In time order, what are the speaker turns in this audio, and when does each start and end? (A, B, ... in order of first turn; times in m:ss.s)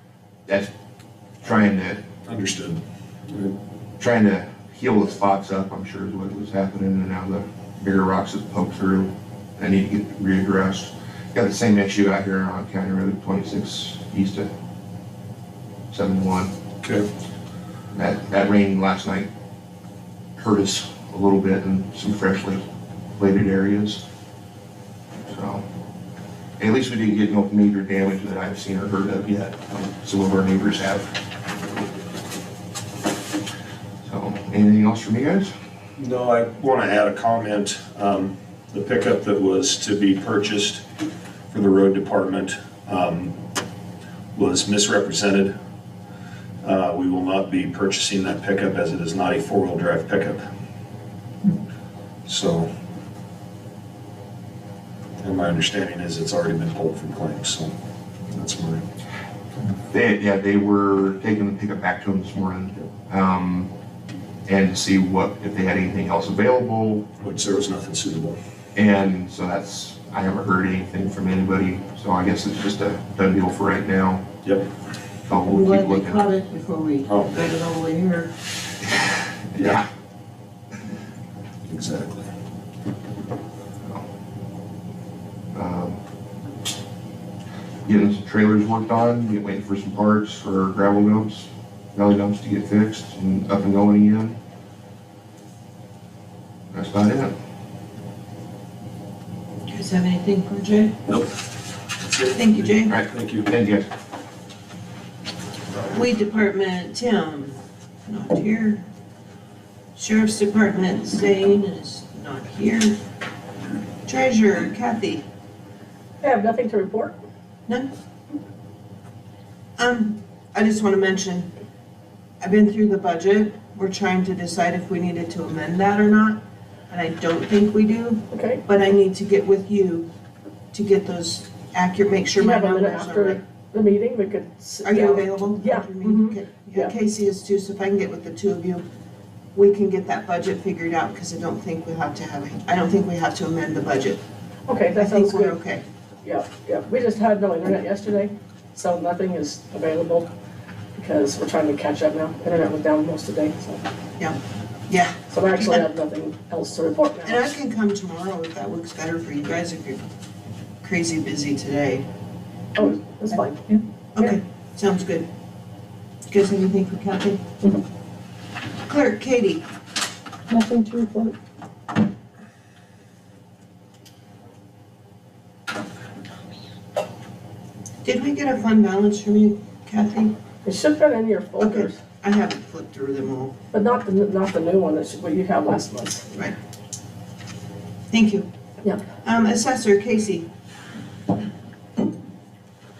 0:01.4-0:02.0 A
0:02.2-0:03.5 B
0:04.0-0:14.5 A
0:15.9-0:16.5 A
0:16.8-0:17.1 B
0:17.9-0:19.3 A
0:20.4-0:22.6 A
0:23.2-0:24.0 A
0:25.3-0:25.6 A
0:26.6-0:31.1 A
0:34.0-0:35.5 A
0:36.0-0:40.8 B
0:41.5-0:43.3 B
0:44.3-0:45.5 B
0:46.6-0:50.4 B
0:52.2-0:52.7 B
0:55.2-0:57.7 B
0:58.3-0:58.8 B
0:59.9-1:03.7 A
1:04.5-1:07.1 A
1:07.2-1:08.4 B
1:08.7-1:14.2 A
1:15.2-1:16.2 A
1:15.4-1:18.3 C
1:17.0-1:17.5 B
1:19.5-1:19.8 A
1:21.7-1:22.3 B
1:25.5-1:26.0 A
1:27.8-1:34.4 A
1:36.7-1:37.3 A
1:39.7-1:41.0 C
1:42.0-1:43.5 B
1:42.3-1:43.0 C
1:42.9-1:43.9 A
1:45.9-1:48.8 C
1:49.9-1:53.0 C
1:54.0-1:55.2 C
1:56.2-1:57.1 D
1:59.8-2:01.5 C
2:02.4-2:10.1 C
2:08.3-2:08.6 D
2:10.7-2:13.4 C
2:12.4-2:16.9 D
2:14.8-2:18.8 C
2:19.5-2:24.2 C
2:24.7-2:25.6 D
2:24.9-2:25.8 C
2:26.2-2:30.3 D
2:31.0-2:33.8 D
2:34.2-2:35.8 C
2:35.3-2:37.5 D
2:37.2-2:40.0 C
2:40.8-2:42.0 C
2:42.8-2:44.4 D
2:44.1-2:45.3 C
2:46.3-2:47.4 C
2:48.8-2:49.7 C
2:50.5-2:51.3 D
2:58.0-3:00.3 C
3:00.6-3:02.0 D
3:01.6-3:03.5 C
3:03.7-3:06.2 D
3:08.1-3:08.5 C
3:09.1-3:10.5 C